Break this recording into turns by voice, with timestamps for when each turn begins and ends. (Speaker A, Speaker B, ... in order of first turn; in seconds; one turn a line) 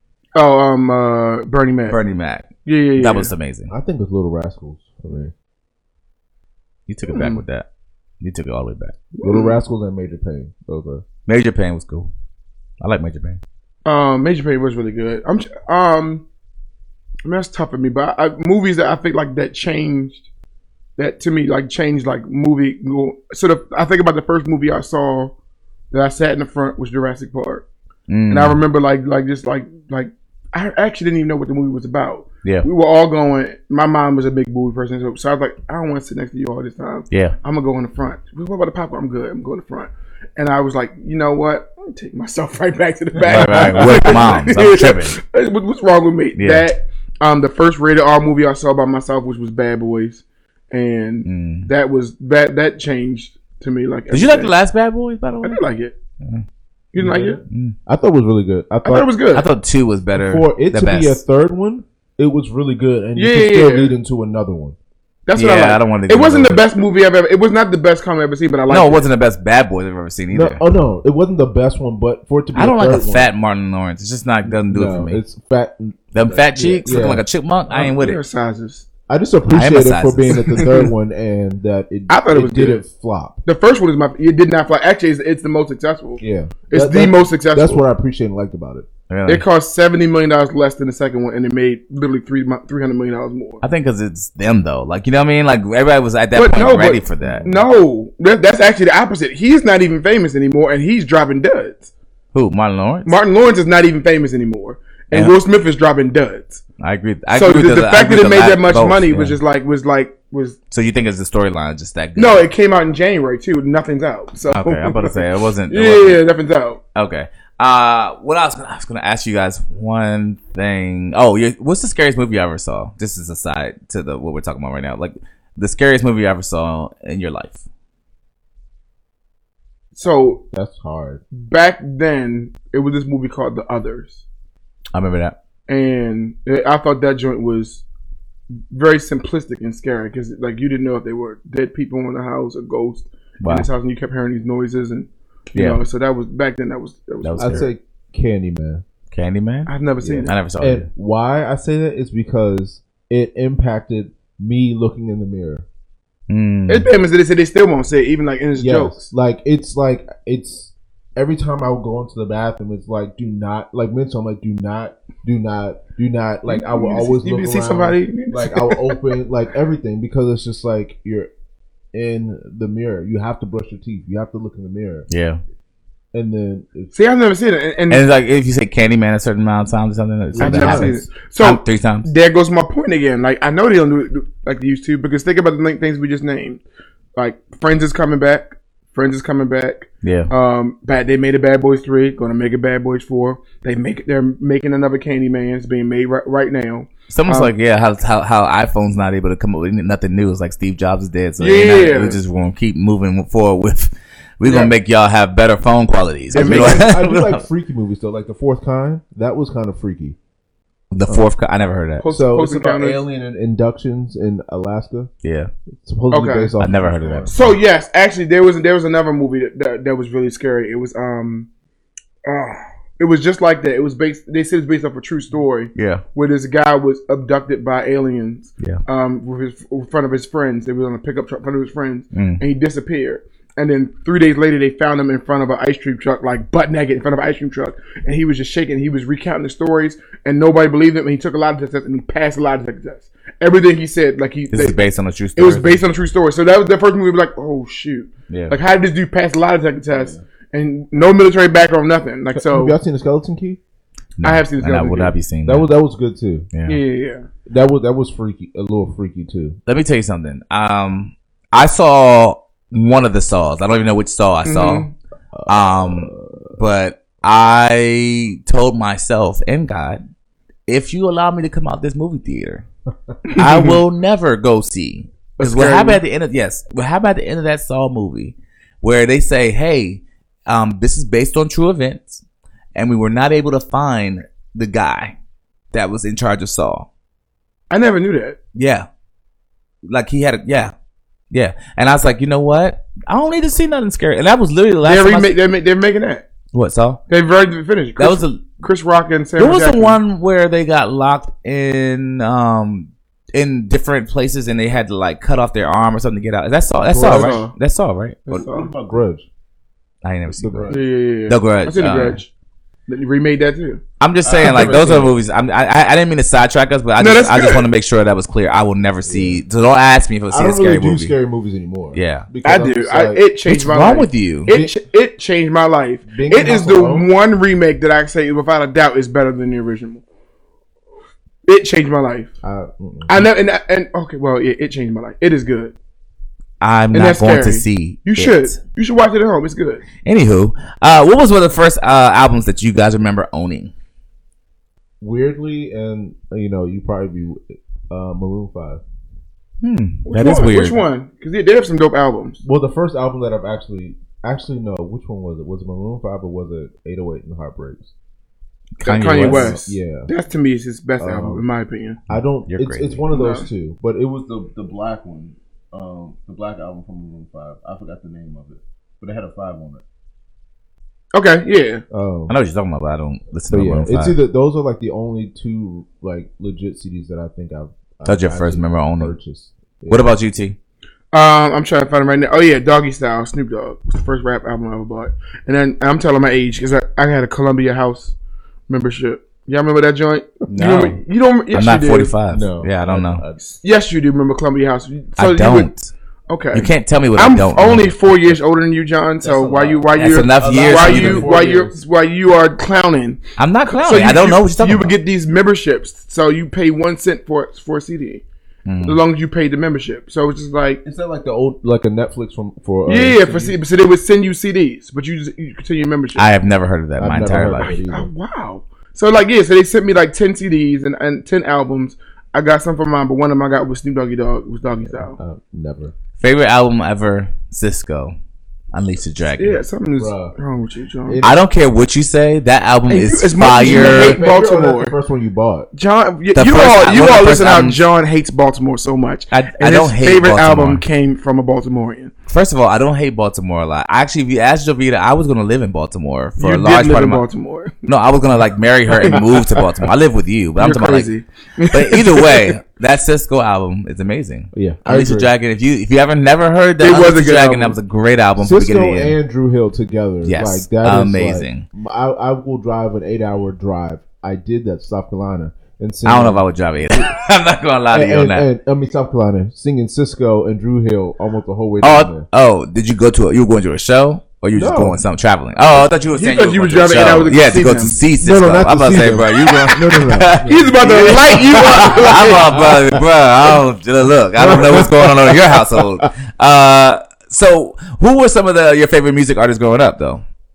Speaker A: 0.3-2.0
Speaker B: 1.9-3.7
Speaker A: 2.6-3.3
Speaker C: 3.7-5.3
Speaker B: 6.9-7.7
Speaker A: 7.1-7.4
Speaker B: 8.2-9.0
Speaker A: 9.1-9.6
Speaker C: 9.2-11.0
Speaker B: 11.3-12.1
Speaker B: 12.8-13.4
Speaker A: 13.8-16.2
Speaker A: 17.2-20.2
Speaker A: 21.0-25.3
Speaker A: 25.9-27.6
Speaker B: 28.1-28.6
Speaker A: 28.3-54.5
Speaker C: 43.2-44.2
Speaker B: 43.2-45.1
Speaker B: 46.4-46.6
Speaker B: 51.2-51.7
Speaker B: 54.1-55.6
Speaker A: 55.4-56.0
Speaker A: 56.9-57.4
Speaker C: 57.0-59.1
Speaker B: 57.5-57.8
Speaker A: 58.8-59.5
Speaker B: 59.3-61.2
Speaker C: 60.1-64.8
Speaker A: 63.1-63.9
Speaker A: 65.3-69.1
Speaker B: 65.3-66.6
Speaker B: 68.7-70.6
Speaker C: 70.3-73.3
Speaker B: 72.5-75.2
Speaker C: 74.7-77.2
Speaker B: 76.1-78.2
Speaker A: 77.7-78.8
Speaker C: 79.1-83.4
Speaker B: 79.5-80.5
Speaker A: 80.4-80.9
Speaker A: 82.1-82.8
Speaker A: 83.5-87.8
Speaker C: 86.2-88.9
Speaker B: 89.1-89.4
Speaker A: 89.3-93.6
Speaker B: 93.6-97.5
Speaker A: 96.3-101.9
Speaker C: 97.2-97.5
Speaker B: 102.3-103.2
Speaker A: 103.0-106.6
Speaker B: 106.8-109.4
Speaker A: 107.3-110.6
Speaker B: 110.7-112.5
Speaker A: 112.2-116.8
Speaker B: 114.5-116.2
Speaker B: 116.9-127.6
Speaker A: 129.9-130.4
Speaker C: 130.5-131.2
Speaker A: 131.3-134.2
Speaker B: 134.9-135.3
Speaker A: 135.7-137.8
Speaker A: 138.7-147.7
Speaker B: 143.4-143.7
Speaker B: 145.5-145.8
Speaker B: 147.2-147.7
Speaker C: 147.4-148.8
Speaker B: 149.1-149.7
Speaker A: 149.7-150.3
Speaker C: 150.0-155.7
Speaker B: 150.2-150.9
Speaker B: 156.3-156.9
Speaker A: 156.7-159.1
Speaker C: 158.6-171.3
Speaker A: 166.5-169.0
Speaker C: 171.9-175.1
Speaker B: 175.1-175.4
Speaker C: 176.1-176.9
Speaker A: 176.9-178.0
Speaker B: 177.9-182.1
Speaker C: 180.3-181.1
Speaker A: 180.4-186.6
Speaker A: 187.2-197.5
Speaker B: 190.0-190.3
Speaker B: 197.1-207.4
Speaker A: 201.4-202.2
Speaker A: 204.4-204.7
Speaker A: 206.3-206.9
Speaker C: 206.3-210.2
Speaker B: 210.9-212.0
Speaker A: 212.0-213.0
Speaker C: 212.1-215.1
Speaker B: 215.2-215.5
Speaker C: 215.8-217.4
Speaker A: 216.1-216.5
Speaker B: 216.6-217.4
Speaker A: 217.3-221.5
Speaker A: 222.2-244.8
Speaker B: 225.7-226.0
Speaker B: 232.1-232.4
Speaker B: 244.5-245.8
Speaker A: 245.3-252.7
Speaker B: 248.3-248.5
Speaker C: 252.3-253.6
Speaker B: 254.2-255.7
Speaker A: 254.2-255.1
Speaker C: 255.4-256.5
Speaker B: 256.5-256.8
Speaker A: 256.6-257.3
Speaker C: 257.4-259.6
Speaker B: 259.6-264.9
Speaker A: 264.4-264.9
Speaker C: 265.3-266.5
Speaker B: 265.5-270.0
Speaker B: 270.7-272.6
Speaker A: 273.2-273.8
Speaker B: 273.4-282.2
Speaker A: 275.4-276.0
Speaker B: 282.7-285.1
Speaker B: 285.7-286.9
Speaker A: 287.7-288.4
Speaker B: 288.5-288.9
Speaker B: 289.9-290.7
Speaker B: 291.3-295.3
Speaker A: 294.8-296.2
Speaker B: 296.5-297.0
Speaker A: 297.1-300.0
Speaker B: 298.0-298.4
Speaker B: 299.4-308.4
Speaker C: 306.9-307.4
Speaker A: 307.0-307.5
Speaker A: 308.3-308.7
Speaker C: 308.3-309.2
Speaker B: 310.0-312.2
Speaker C: 310.4-310.8
Speaker A: 310.7-312.3
Speaker A: 312.9-313.8
Speaker B: 314.0-321.1
Speaker C: 314.2-315.2
Speaker A: 314.4-314.7
Speaker A: 317.0-317.7
Speaker C: 319.0-319.4
Speaker C: 320.3-323.2
Speaker B: 321.9-322.3
Speaker A: 322.4-330.0
Speaker B: 323.5-324.5
Speaker C: 324.5-324.8
Speaker C: 326.1-327.1
Speaker A: 331.4-332.3
Speaker C: 332.4-333.2
Speaker A: 333.1-335.7
Speaker B: 336.6-338.5
Speaker A: 336.9-339.8
Speaker B: 340.0-343.7
Speaker C: 345.0-348.8
Speaker B: 349.6-350.8
Speaker A: 350.0-352.4
Speaker C: 352.4-357.9
Speaker B: 358.8-359.6
Speaker A: 358.8-362.0
Speaker C: 359.0-360.1
Speaker C: 361.0-361.4
Speaker C: 362.1-369.8
Speaker B: 362.1-363.0
Speaker A: 363.1-363.5
Speaker A: 371.1-371.8
Speaker C: 371.9-372.3
Speaker B: 372.3-374.1
Speaker C: 373.5-380.1
Speaker B: 378.1-379.1
Speaker B: 379.9-380.6
Speaker A: 381.1-388.1
Speaker A: 388.7-392.1
Speaker B: 390.5-391.0
Speaker B: 391.5-393.2
Speaker C: 392.3-393.4
Speaker A: 393.4-395.7
Speaker B: 395.2-395.9
Speaker A: 396.3-408.2
Speaker B: 396.5-398.3
Speaker C: 399.2-401.8
Speaker B: 400.0-401.3
Speaker B: 403.4-404.9
Speaker B: 408.6-409.0
Speaker A: 408.8-410.8
Speaker C: 410.8-413.6
Speaker A: 412.9-416.3
Speaker B: 416.1-417.7
Speaker C: 417.0-418.1
Speaker A: 417.6-425.2
Speaker C: 425.0-425.9
Speaker B: 426.2-428.1
Speaker B: 428.7-429.6
Speaker A: 429.4-431.2
Speaker C: 430.0-430.3
Speaker C: 431.0-431.4
Speaker B: 431.2-434.2
Speaker A: 432.9-434.9
Speaker C: 433.5-435.7
Speaker A: 435.7-442.1
Speaker B: 436.3-437.8
Speaker B: 439.3-440.8
Speaker B: 442.3-447.2
Speaker A: 446.4-447.9
Speaker B: 447.9-451.1
Speaker A: 449.0-449.6
Speaker A: 450.6-452.5
Speaker B: 451.7-459.2
Speaker C: 454.5-455.3
Speaker A: 456.8-457.8
Speaker C: 458.4-466.4
Speaker B: 460.2-461.6
Speaker B: 466.1-468.5
Speaker C: 467.9-472.3
Speaker B: 471.8-490.2
Speaker C: 474.5-475.0
Speaker A: 476.1-478.0
Speaker C: 478.2-480.7
Speaker A: 480.4-482.6
Speaker C: 481.3-483.0
Speaker C: 484.4-486.1